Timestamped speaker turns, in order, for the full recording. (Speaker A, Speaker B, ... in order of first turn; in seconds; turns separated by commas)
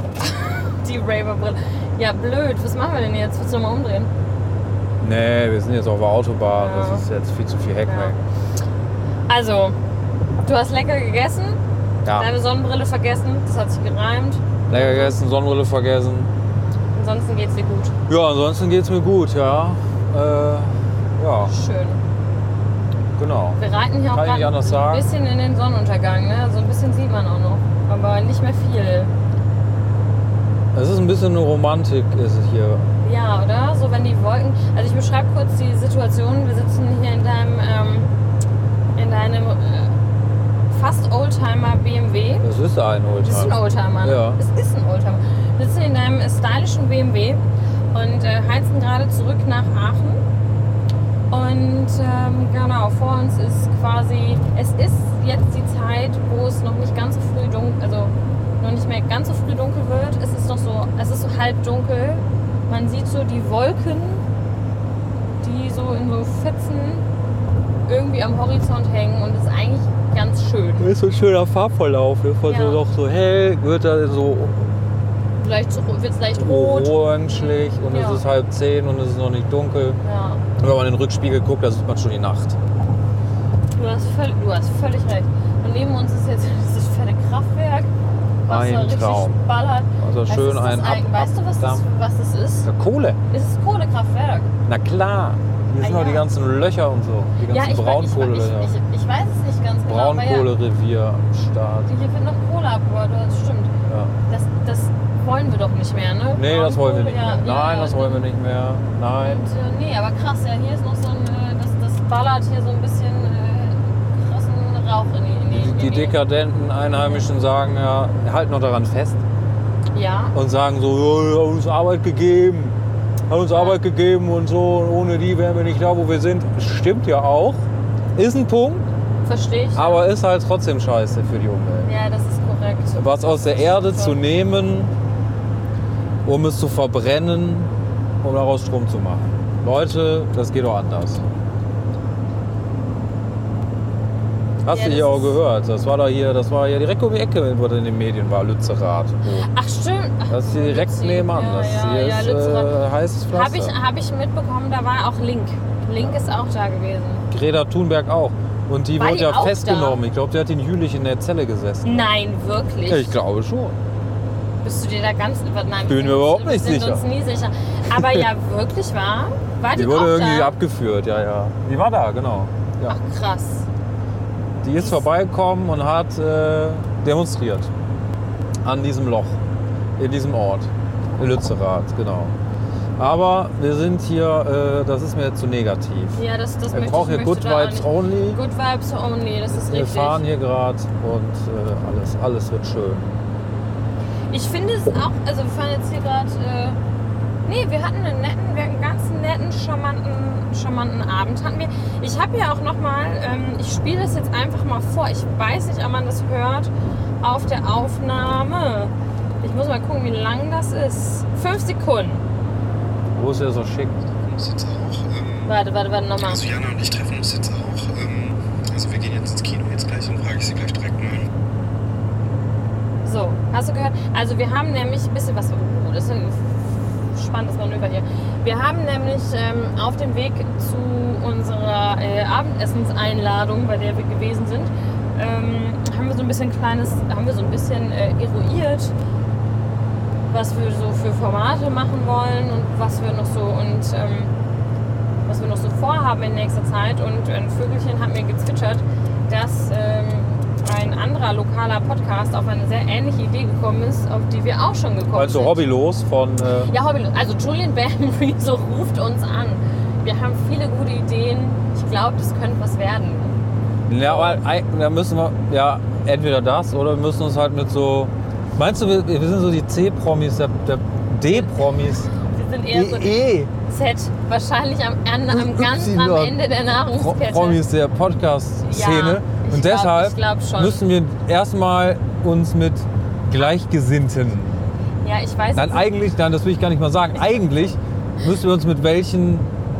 Speaker A: 0.2-4.1, Speaker B: 5.0-8.2, Speaker A: 6.6-7.0, Speaker A: 7.8-8.2, Speaker A: 9.3-9.8, Speaker A: 10.4-11.6, Speaker B: 12.0-12.3, Speaker A: 12.1-15.2, Speaker B: 14.7-16.3, Speaker A: 16.9-17.9, Speaker B: 18.1-21.5, Speaker A: 21.4-22.0, Speaker B: 23.1-25.1, Speaker A: 23.6-29.1, Speaker B: 30.7-32.9, Speaker A: 33.0-38.1, Speaker A: 39.0-39.9, Speaker A: 40.7-42.5, Speaker B: 42.4-44.4, Speaker A: 43.2-47.4, Speaker A: 47.9-50.2, Speaker A: 51.3-64.2, Speaker A: 65.4-67.0, Speaker A: 67.9-70.9, Speaker B: 70.8-74.7, Speaker A: 72.5-72.8, Speaker A: 75.4-78.2, Speaker B: 76.3-80.0, Speaker A: 80.0-80.4, Speaker B: 80.6-82.6, Speaker A: 83.8-87.9, Speaker A: 88.4-92.7, Speaker B: 88.5-89.4, Speaker B: 90.0-91.8, Speaker B: 92.6-93.2, Speaker A: 93.3-94.5, Speaker B: 94.7-98.7, Speaker A: 95.8-96.3, Speaker A: 97.5-100.5, Speaker B: 99.9-101.9, Speaker A: 101.9-103.7, Speaker B: 103.8-104.1, Speaker A: 104.3-108.2, Speaker B: 106.3-109.4, Speaker A: 109.2-116.2, Speaker B: 115.5-119.2, Speaker A: 119.9-120.3, Speaker B: 120.3-122.8, Speaker B: 123.3-128.9, Speaker A: 129.2-130.1, Speaker B: 129.7-131.9, Speaker A: 131.8-134.2, Speaker B: 132.9-134.9, Speaker B: 136.2-141.2, Speaker B: 144.6-149.5, Speaker A: 144.7-145.4, Speaker A: 149.5-152.8, Speaker B: 150.3-153.8, Speaker A: 153.3-157.3, Speaker B: 157.3-162.1, Speaker A: 158.9-160.0, Speaker A: 161.8-163.2, Speaker B: 162.9-163.8, Speaker A: 164.6-170.6, Speaker B: 165.9-167.0, Speaker B: 167.9-168.3, Speaker B: 169.7-173.0, Speaker A: 172.9-173.7, Speaker B: 174.6-177.7, Speaker A: 174.8-175.0, Speaker B: 178.6-179.4, Speaker B: 180.0-182.3, Speaker B: 183.0-188.4, Speaker A: 186.1-190.2, Speaker B: 189.5-193.1, Speaker A: 194.3-196.8, Speaker A: 197.4-212.2, Speaker B: 213.1-214.1, Speaker C: 214.2-215.6, Speaker A: 215.4-216.4, Speaker C: 216.2-221.3, Speaker A: 223.0-238.9, Speaker A: 240.3-244.3, Speaker A: 245.3-255.6, Speaker B: 255.1-256.7, Speaker A: 256.7-263.4, Speaker B: 263.9-272.1, Speaker A: 264.0-264.4, Speaker A: 271.3-277.6, Speaker B: 272.7-273.5, Speaker B: 275.3-276.4, Speaker B: 276.9-284.6, Speaker A: 278.6-280.8, Speaker A: 285.0-285.9, Speaker B: 285.5-289.5